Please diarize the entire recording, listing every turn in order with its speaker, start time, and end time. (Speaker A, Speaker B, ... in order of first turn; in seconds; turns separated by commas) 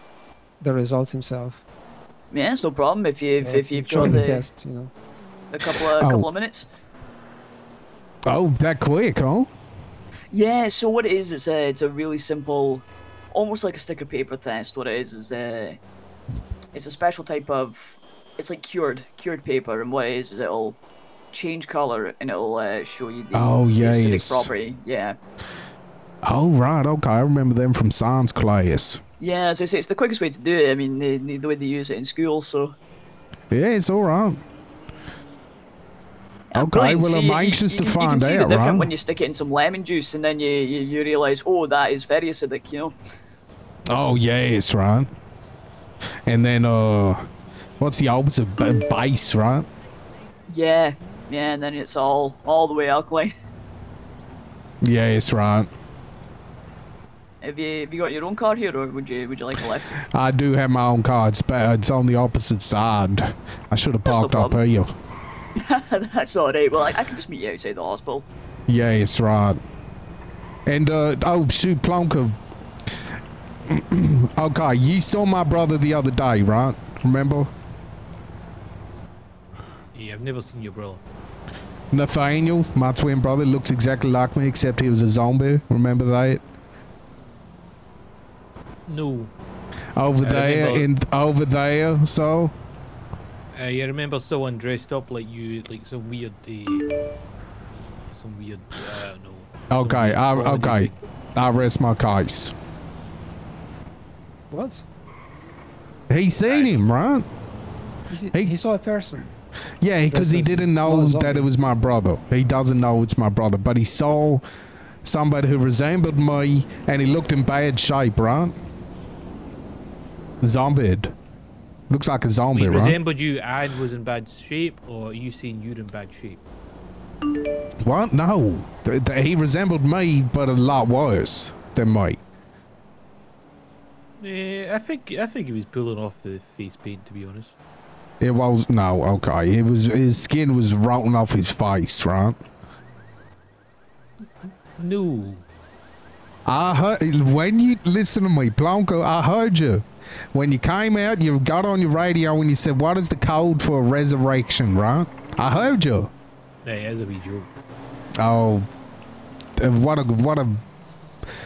Speaker A: 0.6-1.6, Speaker B: 2.3-4.4, Speaker A: 3.4-4.9, Speaker B: 5.5-6.7, Speaker C: 6.0-6.3, Speaker C: 8.3-9.5, Speaker B: 10.3-15.8, Speaker B: 16.7-20.8, Speaker B: 21.3-25.2, Speaker C: 23.3-24.5, Speaker C: 26.2-29.0, Speaker B: 29.2-32.7, Speaker C: 33.5-34.4, Speaker B: 36.5-43.0, Speaker C: 36.5-38.9, Speaker C: 43.9-45.1, Speaker C: 46.3-47.2, Speaker C: 47.8-49.7, Speaker B: 50.5-53.3, Speaker C: 54.8-55.7, Speaker B: 57.4-60.0, Speaker C: 60.0-64.9, Speaker B: 64.0-64.6, Speaker B: 65.6-68.3, Speaker C: 68.7-69.6, Speaker C: 70.7-72.4, Speaker C: 73.7-77.5, Speaker D: 79.9-81.0, Speaker C: 81.9-86.4, Speaker D: 88.9-89.3, Speaker C: 90.0-92.5, Speaker D: 90.2-90.9, Speaker D: 93.5-96.9, Speaker D: 98.1-101.0, Speaker C: 99.7-102.5, Speaker A: 104.5-104.8, Speaker C: 106.1-107.3, Speaker D: 106.4-106.8, Speaker A: 108.1-109.4, Speaker C: 109.8-114.4, Speaker A: 110.1-111.5, Speaker C: 115.0-118.5, Speaker C: 120.4-121.1, Speaker C: 121.9-123.0, Speaker D: 122.5-126.4, Speaker C: 127.8-132.2, Speaker D: 134.2-137.5, Speaker C: 138.2-142.4, Speaker D: 144.4-145.4, Speaker C: 146.4-156.1, Speaker D: 156.6-157.5, Speaker C: 158.2-158.7, Speaker C: 159.6-160.6